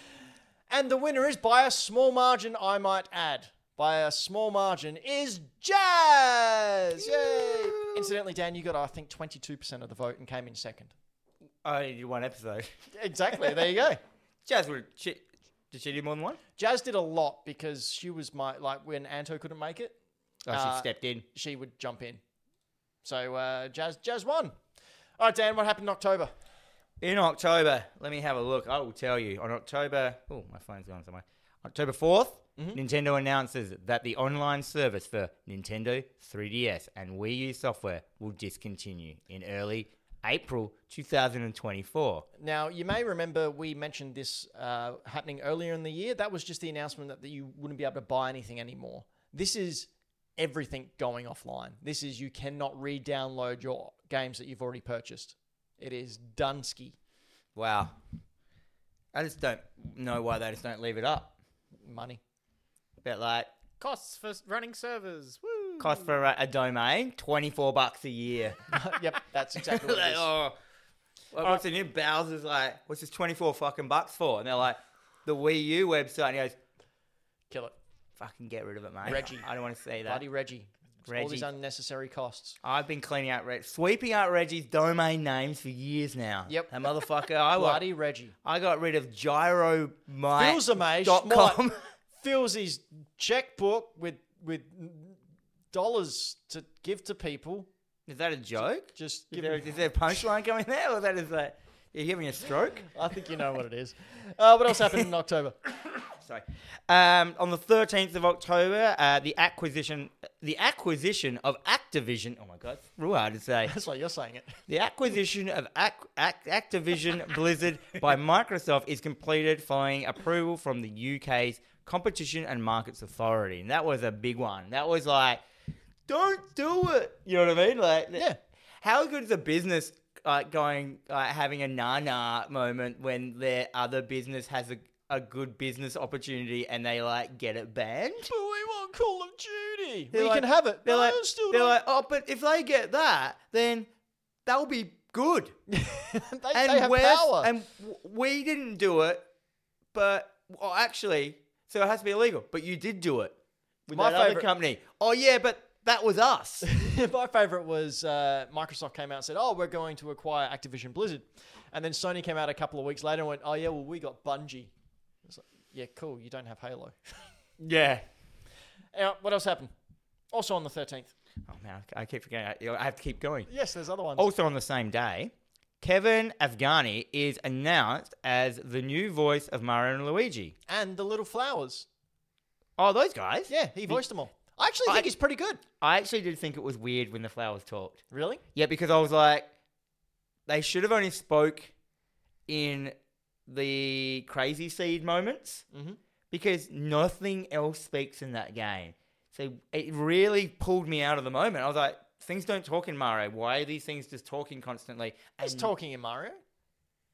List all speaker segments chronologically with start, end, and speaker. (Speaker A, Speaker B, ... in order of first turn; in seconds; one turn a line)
Speaker A: 0.7-10.9
Speaker B: 7.0-8.1
Speaker B: 11.6-12.7
Speaker A: 12.9-14.0
Speaker B: 14.5-16.4
Speaker A: 16.6-20.0
Speaker B: 20.5-21.2
Speaker A: 20.5-22.2
Speaker A: 23.0-24.6
Speaker A: 25.2-26.3
Speaker B: 27.0-42.3
Speaker A: 42.4-57.0
Speaker B: 57.5-58.0
Speaker B: 59.1-61.4
Speaker A: 61.8-62.2
Speaker B: 63.0-63.5
Speaker C: 63.8-66.2
Speaker B: 65.8-68.8
Speaker A: 68.7-70.3
Speaker B: 69.6-70.6
Speaker B: 71.3-76.6
Speaker A: 77.5-77.8
Speaker B: 78.2-80.2
Speaker A: 79.0-79.5
Speaker A: 80.0-82.6
Speaker B: 81.1-81.5
Speaker B: 82.6-87.8
Speaker A: 86.5-86.7
Speaker A: 87.5-88.3
Speaker B: 88.4-91.8
Speaker A: 90.3-91.6
Speaker A: 92.2-95.2
Speaker A: 95.7-97.7
Speaker B: 98.1-102.9
Speaker A: 98.9-99.7
Speaker A: 102.9-105.6
Speaker B: 106.1-113.8
Speaker A: 113.7-114.6
Speaker B: 114.7-125.4
Speaker B: 126.1-128.3
Speaker B: 128.8-138.3
Speaker A: 138.2-141.8
Speaker B: 140.1-143.9
Speaker B: 144.5-145.6
Speaker A: 145.7-147.5
Speaker B: 146.5-149.3
Speaker B: 149.9-153.4
Speaker B: 153.9-156.7
Speaker A: 153.9-154.5
Speaker A: 156.6-164.7
Speaker A: 165.2-167.0
Speaker B: 167.6-168.1
Speaker A: 168.9-169.7
Speaker A: 170.3-171.1
Speaker B: 171.4-173.5
Speaker A: 173.5-174.3
Speaker B: 174.2-180.5
Speaker A: 180.7-181.9
Speaker B: 182.8-184.0
Speaker A: 183.5-185.6
Speaker B: 185.8-188.0
Speaker A: 188.1-188.4
Speaker B: 188.6-189.5
Speaker B: 190.5-191.7
Speaker B: 192.5-192.9
Speaker B: 193.5-195.7
Speaker A: 195.7-196.0
Speaker B: 196.3-205.7
Speaker A: 205.4-206.4